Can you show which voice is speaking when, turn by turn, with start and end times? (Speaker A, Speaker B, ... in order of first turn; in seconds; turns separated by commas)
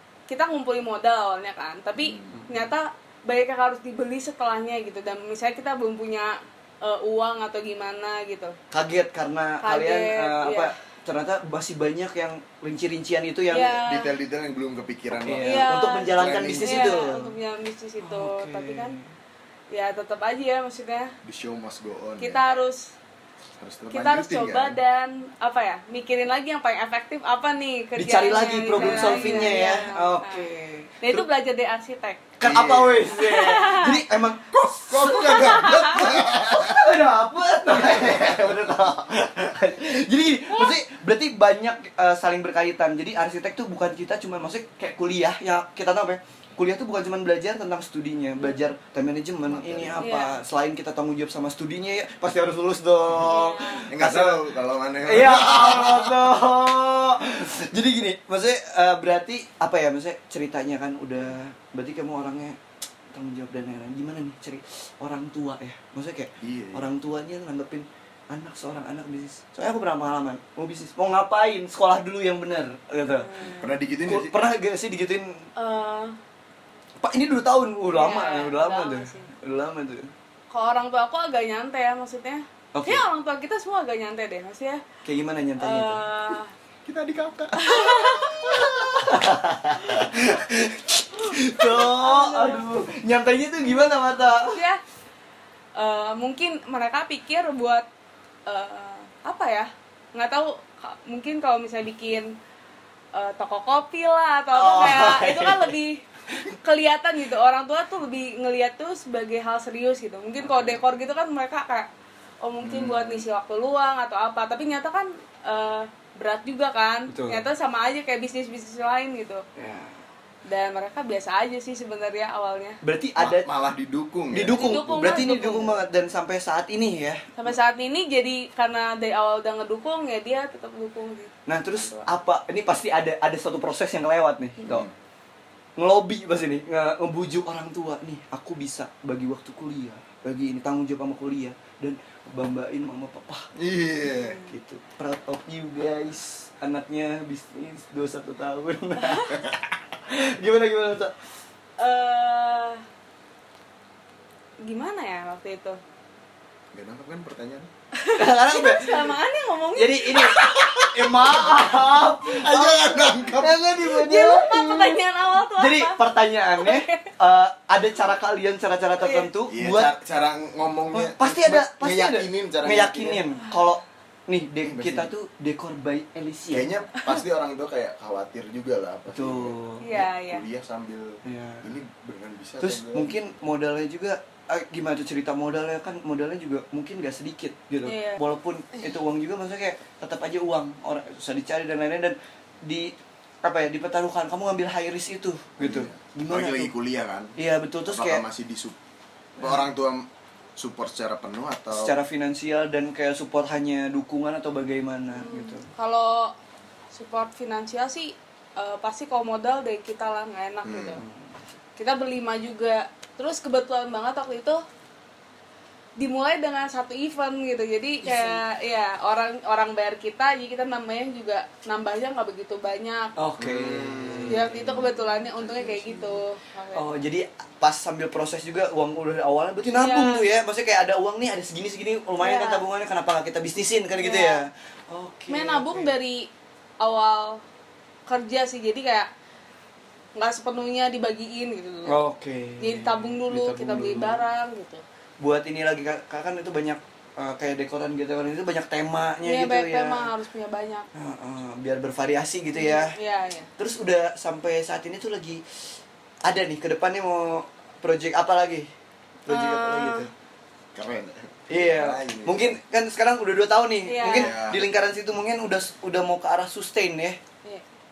Speaker A: 0.3-8.6, Speaker B: 2.0-2.4, Speaker C: 8.7-13.8, Speaker A: 9.6-10.7, Speaker A: 13.5-14.1, Speaker B: 13.7-17.0, Speaker C: 15.1-17.3, Speaker A: 15.4-19.0, Speaker C: 18.0-19.1, Speaker A: 19.7-21.1, Speaker B: 21.2-22.5, Speaker A: 22.2-22.9, Speaker B: 23.6-24.8, Speaker A: 23.9-30.5, Speaker C: 27.9-31.2, Speaker B: 28.7-29.4, Speaker A: 31.0-32.3, Speaker C: 32.4-54.5, Speaker B: 32.4-33.2, Speaker A: 33.1-34.0, Speaker B: 34.5-37.0, Speaker A: 35.1-36.0, Speaker B: 37.8-38.4, Speaker B: 49.5-50.0, Speaker A: 50.0-50.4, Speaker A: 53.2-53.9, Speaker B: 53.9-56.3, Speaker C: 55.0-62.6, Speaker C: 63.1-73.4, Speaker B: 66.4-66.9, Speaker A: 73.0-73.7, Speaker B: 73.6-74.4, Speaker C: 74.0-75.5, Speaker A: 75.5-76.1, Speaker C: 77.0-80.1, Speaker A: 77.9-79.3, Speaker A: 80.5-84.8, Speaker C: 82.7-83.0, Speaker C: 85.0-86.0, Speaker A: 85.6-86.5, Speaker B: 86.8-89.1, Speaker A: 87.5-88.9, Speaker C: 88.5-94.6, Speaker A: 91.4-92.7, Speaker A: 94.5-94.8, Speaker A: 95.8-97.8, Speaker A: 98.5-102.3, Speaker A: 103.1-106.0, Speaker C: 104.5-105.7, Speaker A: 106.6-111.9, Speaker C: 110.5-110.7, Speaker A: 112.4-119.4, Speaker B: 112.6-113.2, Speaker C: 117.1-117.4, Speaker C: 119.5-120.0, Speaker A: 120.5-122.8, Speaker C: 122.8-123.5, Speaker B: 123.2-125.2, Speaker C: 124.3-127.2, Speaker A: 124.5-125.8, Speaker A: 127.4-132.1, Speaker C: 131.4-134.9, Speaker B: 134.6-134.9, Speaker C: 135.8-143.5, Speaker B: 143.6-144.4, Speaker A: 144.1-144.5, Speaker C: 144.3-151.1, Speaker A: 149.0-149.4, Speaker A: 151.8-152.8, Speaker A: 154.6-155.8, Speaker B: 156.7-157.7, Speaker A: 157.9-161.5, Speaker C: 158.1-159.2, Speaker C: 159.7-169.9, Speaker B: 161.1-163.6, Speaker A: 163.8-167.1, Speaker A: 169.0-169.3, Speaker B: 169.5-173.2, Speaker C: 170.9-176.7, Speaker B: 174.6-175.1, Speaker B: 176.5-183.1, Speaker C: 179.1-179.9, Speaker A: 179.8-180.4, Speaker C: 181.2-181.7, Speaker C: 182.6-196.7, Speaker A: 187.8-188.2, Speaker B: 195.6-197.3, Speaker C: 197.4-198.2, Speaker B: 197.9-198.8, Speaker B: 199.4-202.0, Speaker C: 201.7-205.7, Speaker A: 205.1-206.3, Speaker A: 206.9-211.0, Speaker B: 210.6-211.0, Speaker C: 210.9-211.3, Speaker A: 211.8-214.6, Speaker A: 216.0-223.1, Speaker C: 218.0-218.4, Speaker C: 223.2-224.8, Speaker B: 223.4-226.2, Speaker A: 224.2-226.9, Speaker C: 226.7-235.9, Speaker A: 229.7-230.2, Speaker A: 232.2-232.6, Speaker A: 234.0-234.4, Speaker A: 235.3-236.3, Speaker A: 236.8-237.4, Speaker A: 238.1-239.1, Speaker A: 240.2-242.0, Speaker C: 241.8-244.2, Speaker A: 242.6-244.8, Speaker C: 245.2-250.1, Speaker A: 249.2-250.9, Speaker C: 250.9-252.9, Speaker A: 252.5-253.5, Speaker C: 253.6-255.4, Speaker C: 256.2-258.7, Speaker C: 259.2-260.1, Speaker A: 259.3-260.1, Speaker B: 260.7-262.5, Speaker C: 261.5-267.2, Speaker A: 263.9-264.3, Speaker B: 264.0-264.6